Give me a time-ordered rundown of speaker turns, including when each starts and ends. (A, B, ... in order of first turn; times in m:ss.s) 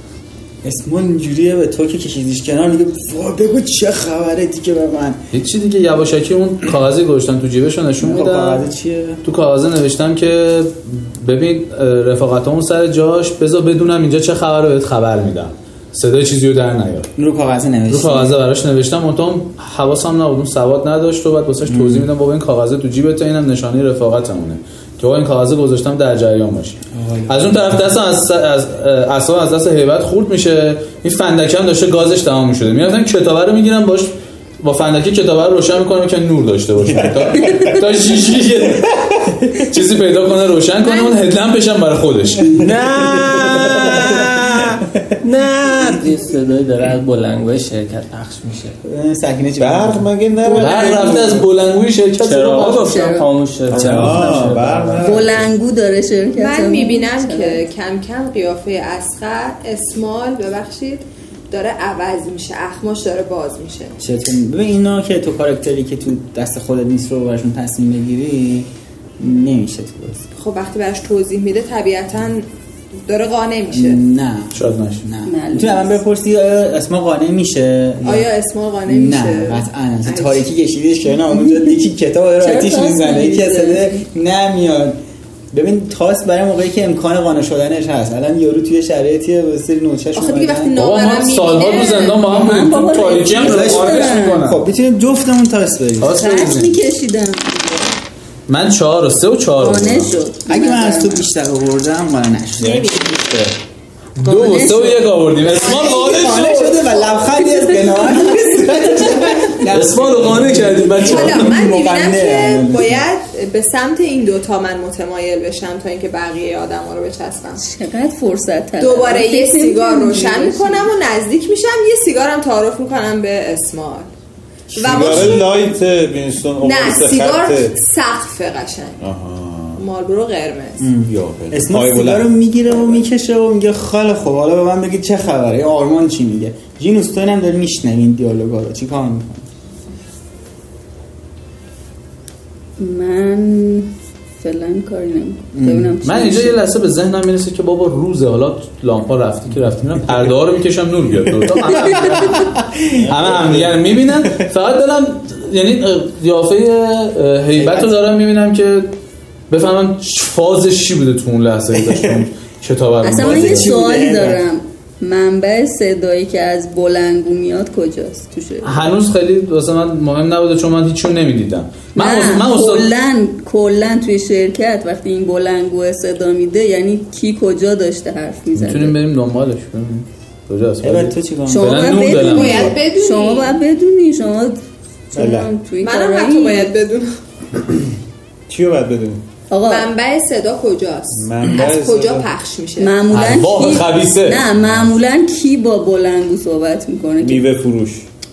0:00.6-0:05.2 A
0:05.3-0:08.6 B
0:08.0-0:09.2 A
0:09.2-0:17.1 B
0:17.2-0:18.4 A
0:17.9-0:42.6 B
0:21.6-0:22.1 A
0:26.9-0:27.5 A
0:40.8-0:41.2 C
0:42.5-0:48.8 D
0:48.8-0:51.4 A
0:49.6-0:51.4 E
0:50.5-0:53.2 B
0:52.2-0:55.4 D
0:52.6-0:53.2 F
0:53.7-0:55.4 E
0:55.0-0:57.6 F
0:56.3-1:04.0 C
1:04.0-1:10.2 A
1:10.4-1:12.4 C
1:13.1-1:14.0 C
1:13.7-1:18.3 A
1:14.5-1:15.0 B
1:15.2-1:15.9 F
1:18.0-1:20.5 C
1:18.9-1:25.0 A
1:22.4-1:24.0 F
1:25.5-1:30.7 A
1:30.1-1:32.2 C
1:30.8-1:34.6 B
1:31.6-1:34.4 F
1:33.4-1:36.1 A
1:36.0-1:36.7 B
1:36.0-1:37.9 F
1:38.5-1:40.2 B
1:39.6-1:41.2 F
1:40.5-1:43.1 A
1:42.6-1:43.1 C
1:42.6-1:43.5 E
1:44.2-1:46.8 B
1:44.2-1:45.0 F
1:45.5-1:53.0 A
1:49.6-1:51.5 B
1:51.0-1:57.6 C
1:57.6-2:00.9 F
1:58.8-2:04.1 C
2:04.7-2:05.4 A
2:04.7-2:05.6 C
2:04.8-2:07.8 E
2:06.6-2:09.0 C
2:09.0-2:09.8 E
2:09.8-2:10.9 C
2:10.8-2:19.5 A
2:11.0-2:12.3 E
2:22.8-2:26.6 F
2:25.5-2:26.0 A
2:26.0-2:32.5 B
2:31.7-2:33.0 A
2:32.9-2:34.0 E
2:33.1-2:38.9 B
2:37.6-2:37.9 A
2:39.5-2:43.7 B
2:41.8-2:42.2 A
2:43.0-2:48.9 F
2:43.1-2:44.4 A
2:48.6-2:52.9 B
2:52.0-2:59.0 F
2:58.6-3:02.8 B
3:00.8-3:02.1 A
3:01.5-3:04.6 F
3:02.0-3:03.6 C
3:05.1-3:06.7 F
3:05.2-3:05.5 E
3:05.8-3:07.1 C
3:08.5-3:09.2 E
3:09.5-3:09.9 F
3:09.6-3:13.0 C
3:11.1-3:12.3 E
3:12.8-3:17.4 F
3:13.1-3:14.5 B
3:17.2-3:18.1 E